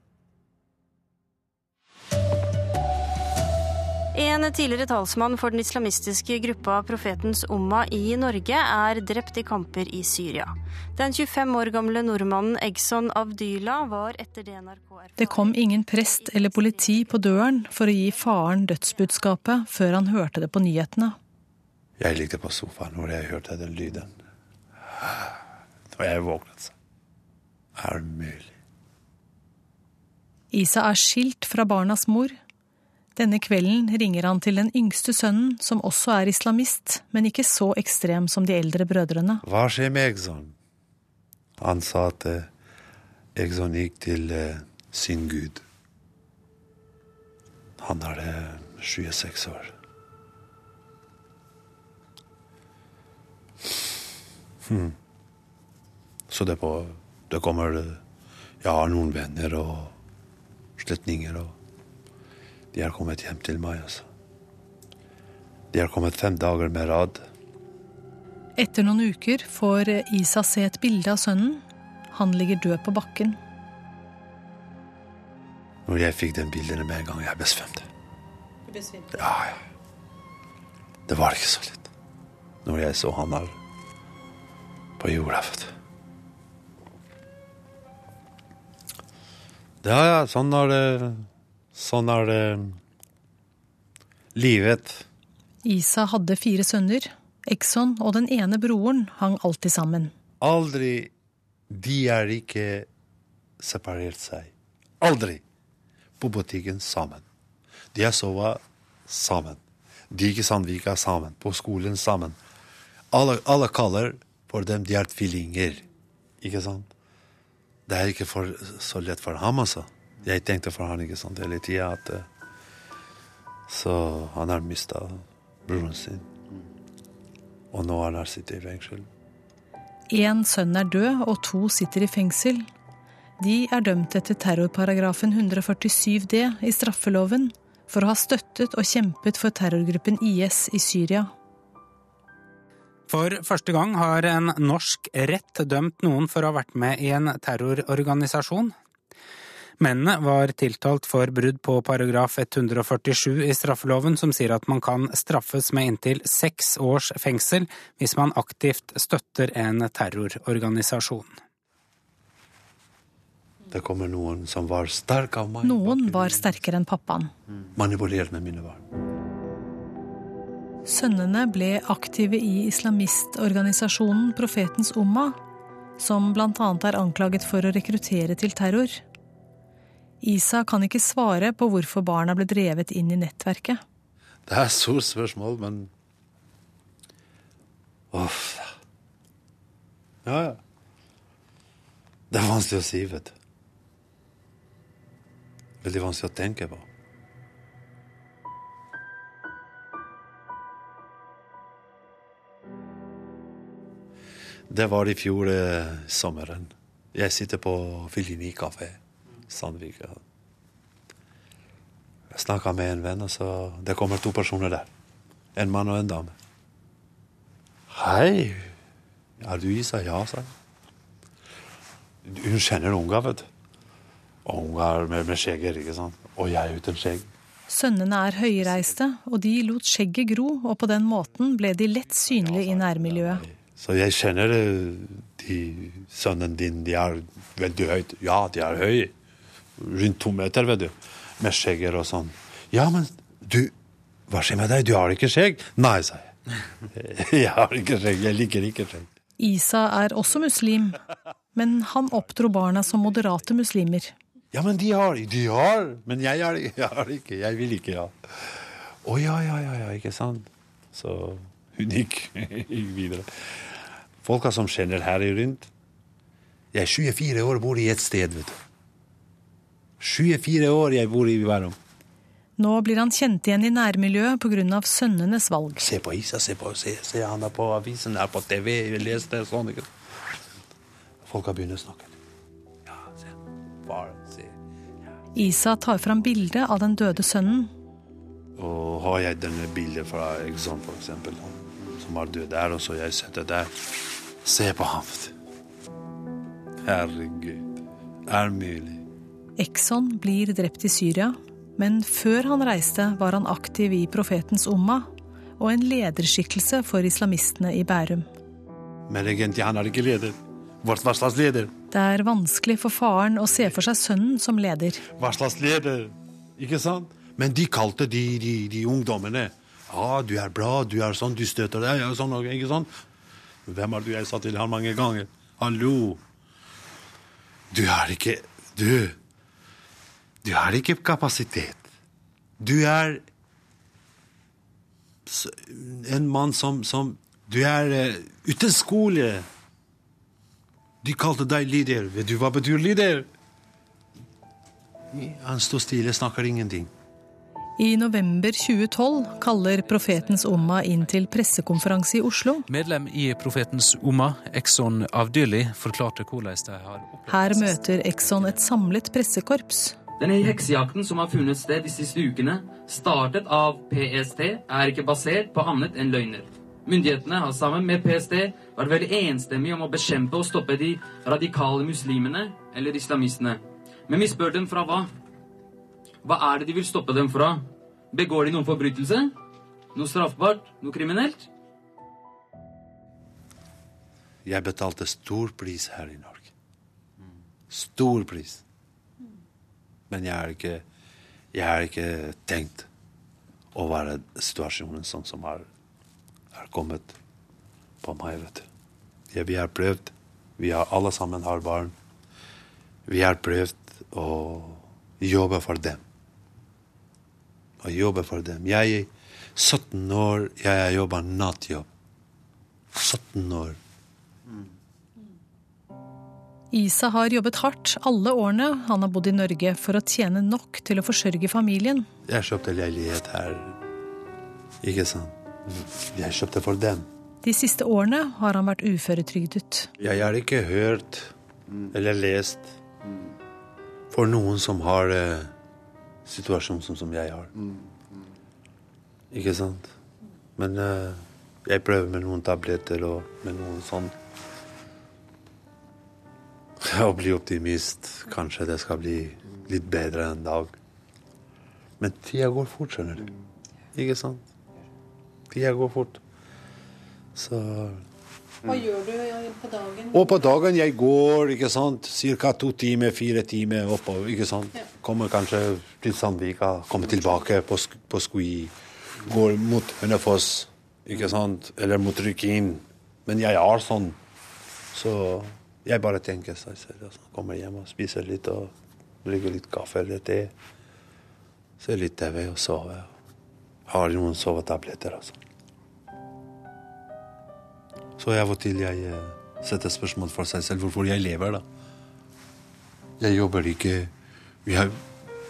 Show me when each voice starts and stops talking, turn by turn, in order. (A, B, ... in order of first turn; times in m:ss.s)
0:04.1-0:17.0 A
0:15.2-0:21.2 B
0:22.0-0:24.1 C
0:24.8-0:25.4 C
0:25.9-0:26.7 C
0:27.8-0:28.6 C
0:30.5-0:32.4 B
0:33.2-0:39.4 B
0:39.4-0:40.6 C
0:41.6-0:42.5 C
0:43.4-0:45.6 C
0:47.8-0:49.8 C
0:54.6-0:55.0 C
0:56.3-0:58.0 C
0:58.6-0:59.9 C
1:00.8-1:01.6 C
1:02.7-1:04.1 C
1:05.7-1:07.2 C
1:08.6-1:13.4 B
1:15.9-1:17.9 C
1:18.7-1:19.1 B
1:19.1-1:19.6 C
1:21.1-1:21.9 C
1:22.6-1:23.6 C
1:25.0-1:25.7 C
1:29.8-1:32.8 C
1:34.4-1:35.1 C
1:35.6-1:40.1 B
1:40.4-1:41.1 C
1:41.7-1:42.9 C
1:43.6-1:45.4 C
1:46.2-1:47.2 C
1:47.9-1:52.4 C
1:53.1-1:55.8 C
1:56.4-1:56.9 C
1:57.9-2:02.3 C
2:03.7-2:06.3 C
2:07.7-2:09.1 C
2:10.1-2:12.7 B
2:13.4-2:21.3 B
2:23.1-2:28.7 D
2:29.8-2:41.4 D
2:43.7-2:46.5 C
2:45.6-2:47.3 B
2:47.8-2:48.8 C
2:50.9-2:55.4 B
2:56.0-2:59.0 B
3:00.2-3:03.8 B
3:04.5-3:05.9 C
3:08.1-3:08.8 C
3:10.2-3:10.6 C
3:12.3-3:13.3 C
3:15.8-3:16.9 C
3:24.7-3:30.2 C
3:32.3-3:34.9 C
3:35.6-3:36.3 C
3:37.9-3:38.7 C
3:39.4-3:40.5 C
3:42.2-3:43.5 C
3:44.4-3:47.3 C
3:47.7-3:53.4 B
3:52.4-3:59.1 C
3:59.8-4:03.7 C
4:04.3-4:06.4 C
4:06.9-4:09.1 C
4:09.4-4:11.0 B
4:11.6-4:14.1 B
4:14.5-4:18.1 C
4:19.0-4:23.7 C
4:24.2-4:25.7 C
4:26.7-4:28.6 C
4:30.0-4:31.8 C
4:32.6-4:35.8 B
4:35.8-4:39.9 C
4:41.2-4:42.2 C
4:42.9-4:44.6 C
4:45.3-4:47.7 B
4:48.6-4:53.8 C
4:54.4-4:55.3 C
4:56.8-4:59.0 C
4:59.6-5:05.1 B
5:05.6-5:08.3 B
5:09.1-5:11.7 C
5:11.9-5:15.0 B
5:15.2-5:22.9 C
5:23.7-5:26.2 C
5:27.7-5:29.2 C
5:30.4-5:31.9 C
5:32.6-5:33.2 C
5:35.3-5:39.4 C
5:41.0-5:43.3 C
5:45.1-5:46.9 C
5:47.8-5:52.6 B
5:52.7-5:58.6 E
5:57.3-6:00.0 B
6:00.2-6:15.1 F
6:16.2-6:19.3 F
6:19.9-6:21.5 F
6:24.4-6:26.5 C
6:27.7-6:28.6 C
6:30.1-6:30.8 C
6:31.5-6:32.9 C
6:33.7-6:35.7 C
6:36.5-6:37.2 C
6:38.0-6:38.7 C
6:39.3-6:41.9 C
6:43.1-6:46.0 C
6:47.8-6:51.9 C
6:52.9-6:53.8 C
6:56.7-7:02.1 B
7:02.3-7:03.8 C
7:04.8-7:07.1 C
7:07.4-7:09.9 B
7:10.0-7:11.3 C
7:11.9-7:12.7 C
7:14.1-7:15.5 C
7:16.2-7:17.5 C
7:19.3-7:19.9 C
7:20.6-7:24.2 C
7:26.8-7:30.7 C
7:32.0-7:33.3 C
7:33.9-7:34.4 C
7:35.5-7:36.2 C
7:37.3-7:38.0 C
7:39.0-7:40.1 B
7:40.1-7:54.2 C
7:54.9-7:58.7 C
7:59.2-8:00.5 C
8:01.8-8:03.1 C
8:03.9-8:05.4 C
8:08.2-8:11.6 C
8:13.2-8:14.1 C
8:14.6-8:15.0 C